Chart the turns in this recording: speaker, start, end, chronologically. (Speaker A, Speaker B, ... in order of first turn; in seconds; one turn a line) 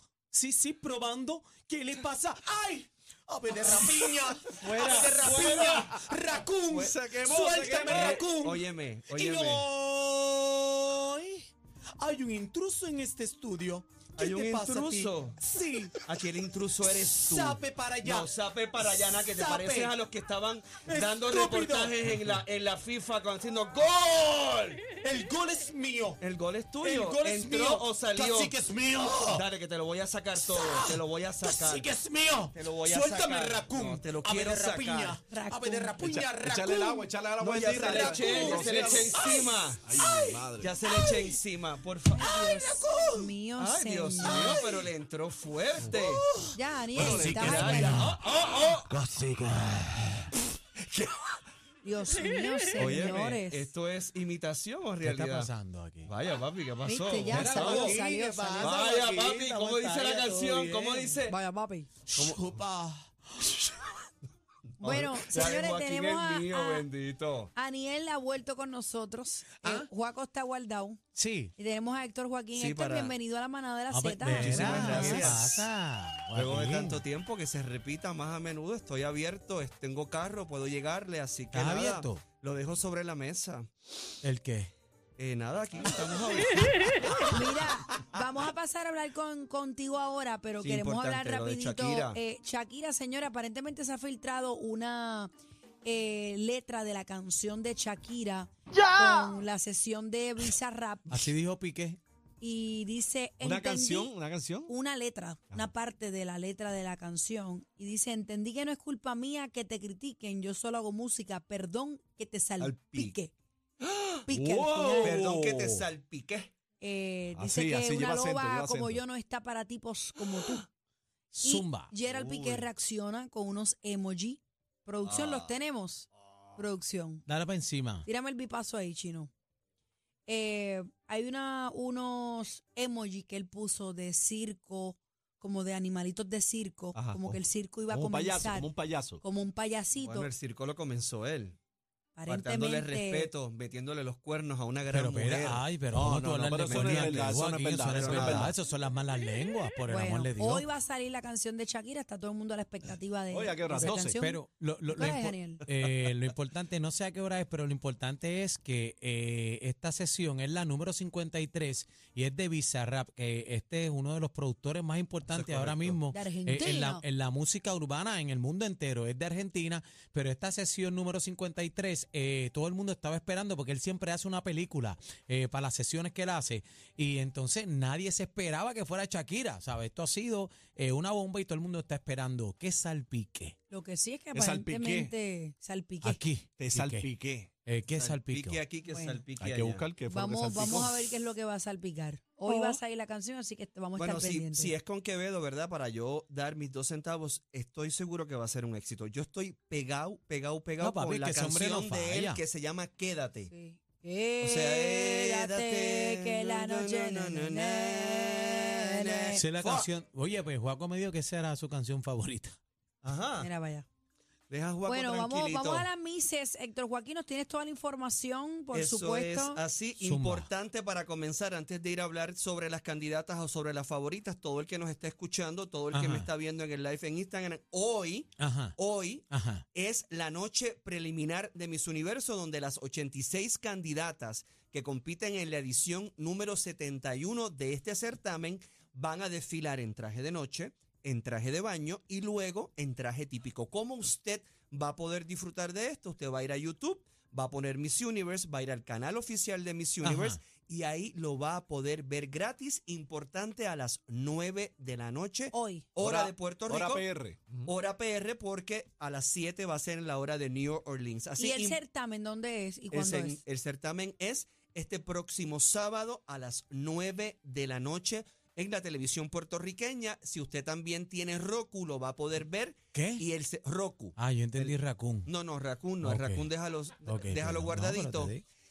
Speaker A: 0.3-16.0
Speaker B: 4.5-6.0
Speaker C: 6.7-8.2
Speaker B: 7.6-9.7
Speaker B: 14.2-15.4
Speaker B: 16.0-24.8
Speaker A: 17.0-18.3
Speaker A: 19.0-19.9
Speaker A: 20.8-22.4
Speaker A: 24.9-26.2
Speaker B: 26.2-28.6
Speaker A: 26.8-29.4
Speaker B: 29.3-31.9
Speaker A: 30.4-37.1
Speaker B: 32.5-35.2
Speaker D: 35.3-35.9
Speaker C: 36.0-39.2
Speaker B: 37.4-39.9
Speaker A: 37.7-41.3
Speaker C: 39.8-40.7
Speaker B: 40.6-42.4
Speaker D: 42.1-44.6
Speaker A: 42.3-43.3
Speaker B: 43.6-46.2
Speaker A: 44.2-44.8
Speaker A: 45.8-48.2
Speaker D: 46.5-48.1
Speaker C: 46.9-48.0
Speaker B: 47.0-48.9
Speaker A: 49.1-50.1
Speaker D: 51.8-53.7
Speaker B: 52.8-55.5
Speaker A: 55.0-56.1
Speaker B: 56.0-58.0
Speaker D: 56.8-58.8
Speaker A: 57.2-61.2
Speaker B: 58.6-61.4
Speaker D: 61.3-61.9
Speaker A: 62.1-63.9
Speaker B: 62.1-62.5
Speaker D: 64.8-66.8
Speaker B: 64.8-67.5
Speaker D: 67.5-71.0
Speaker A: 71.1-71.5
Speaker D: 71.6-75.3
Speaker B: 72.5-73.2
Speaker A: 73.9-77.0
Speaker B: 74.3-75.7
Speaker B: 76.3-83.7
Speaker A: 81.5-82.2
Speaker A: 84.2-84.7
Speaker B: 85.2-87.7
Speaker D: 87.3-95.3
Speaker B: 90.6-92.2
Speaker D: 95.8-101.3
Speaker C: 98.7-99.3
Speaker A: 101.1-102.0
Speaker D: 102.4-104.1
Speaker C: 103.4-104.7
Speaker D: 104.7-113.3
Speaker B: 112.6-113.2
Speaker B: 113.8-114.2
Speaker D: 114.2-115.2
Speaker C: 114.3-115.9
Speaker B: 115.0-116.5
Speaker D: 116.8-120.7
Speaker C: 117.3-119.0
Speaker A: 121.3-121.9
Speaker D: 121.4-127.2
Speaker B: 122.1-122.7
Speaker B: 125.0-125.5
Speaker A: 127.3-128.1
Speaker D: 128.0-129.3
Speaker D: 130.3-138.7
Speaker C: 136.9-139.2
Speaker D: 139.2-140.3
Speaker B: 140.0-141.6
Speaker D: 142.2-143.3
Speaker B: 142.3-145.7
Speaker A: 144.9-150.6
Speaker C: 145.9-148.5
Speaker B: 146.5-148.6
Speaker D: 149.9-155.6
Speaker C: 153.3-154.2
Speaker A: 154.2-183.6
Speaker B: 165.3-166.0
Speaker D: 166.1-167.0
Speaker D: 183.7-186.2
Speaker C: 184.3-185.1
Speaker A: 186.0-187.1
Speaker C: 186.6-187.5
Speaker A: 187.7-188.6
Speaker B: 187.9-189.9
Speaker D: 188.9-189.2
Speaker C: 189.4-191.0
Speaker D: 190.1-194.7
Speaker B: 194.0-203.5
Speaker A: 200.8-202.4
Speaker D: 203.5-209.4
Speaker B: 204.4-209.9
Speaker A: 209.3-212.6
Speaker B: 213.0-213.5
Speaker D: 213.4-213.8
Speaker B: 214.5-215.9
Speaker D: 214.8-219.6
Speaker B: 218.7-257.1
Speaker A: 220.0-220.5
Speaker A: 225.9-226.3
Speaker A: 228.4-228.7
Speaker A: 229.3-229.6
Speaker A: 250.0-250.4
Speaker D: 255.5-255.9
Speaker C: 256.0-257.7
Speaker B: 257.6-261.8
Speaker D: 261.4-263.4
Speaker B: 262.9-278.3
Speaker A: 272.9-273.2
Speaker A: 274.2-275.3
Speaker A: 276.0-276.5
Speaker A: 277.1-278.4